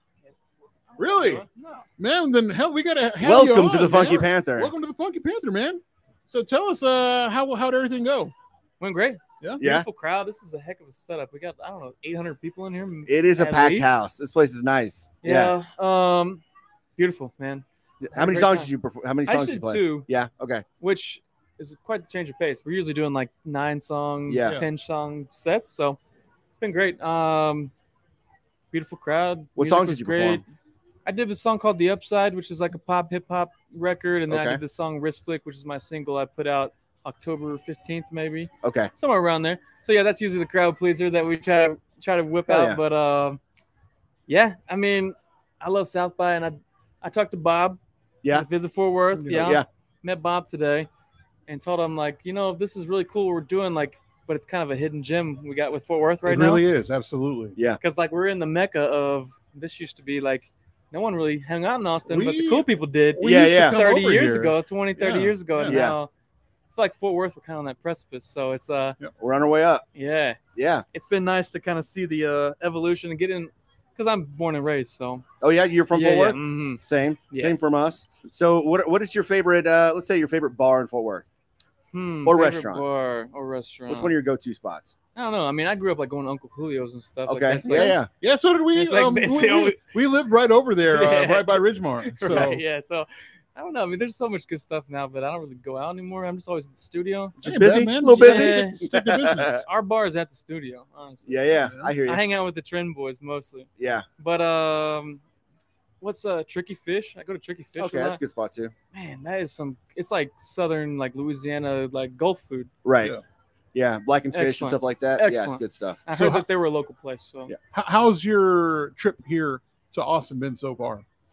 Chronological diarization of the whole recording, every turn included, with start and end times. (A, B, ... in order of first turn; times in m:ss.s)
0:00.9-0:01.9 A
0:01.0-0:01.4 B
0:02.0-0:08.3 B
0:03.2-0:04.7 C
0:08.8-0:13.9 A
0:09.6-0:09.9 C
0:13.1-0:15.6 C
0:15.2-0:16.4 A
0:17.0-0:18.7 A
0:18.0-0:20.6 C
0:19.3-0:20.1 A
0:20.8-0:26.0 A
0:24.3-0:24.6 C
0:26.6-0:27.7 A
0:28.7-0:30.4 A
0:29.6-0:30.4 C
0:31.1-0:43.4 A
0:34.3-0:34.6 C
0:38.6-0:38.9 C
0:42.5-0:42.8 C
0:44.3-0:50.9 A
0:49.2-0:49.6 B
0:49.3-0:49.7 C
0:51.5-0:56.6 A
0:56.2-0:57.6 B
0:57.8-1:06.1 A
1:02.1-1:05.8 B
1:03.2-1:03.8 C
1:05.7-1:06.0 C
1:06.7-1:09.0 A
1:09.2-1:09.8 C
1:10.0-1:10.4 A
1:10.6-1:10.8 C
1:10.9-1:15.2 A
1:15.4-1:21.3 C
1:15.9-1:17.6 A
1:21.9-1:24.1 A
1:22.2-1:22.8 C
1:23.9-1:25.0 C
1:25.2-1:28.0 A
1:27.3-1:28.1 C
1:27.6-1:32.6 B
1:28.7-1:29.8 A
1:30.9-1:37.4 A
1:37.4-1:39.6 B
1:37.4-1:39.6 C
1:38.1-1:38.9 A
1:39.6-1:45.2 A
1:41.3-1:42.2 C
1:41.6-1:42.0 B
1:43.8-1:44.1 C
1:46.0-1:48.2 A
1:47.8-1:48.7 C
1:48.9-1:52.7 A
1:52.8-1:53.2 C
1:53.7-1:56.0 C
1:54.3-1:57.5 A
1:56.1-1:56.4 B
1:57.7-2:01.0 B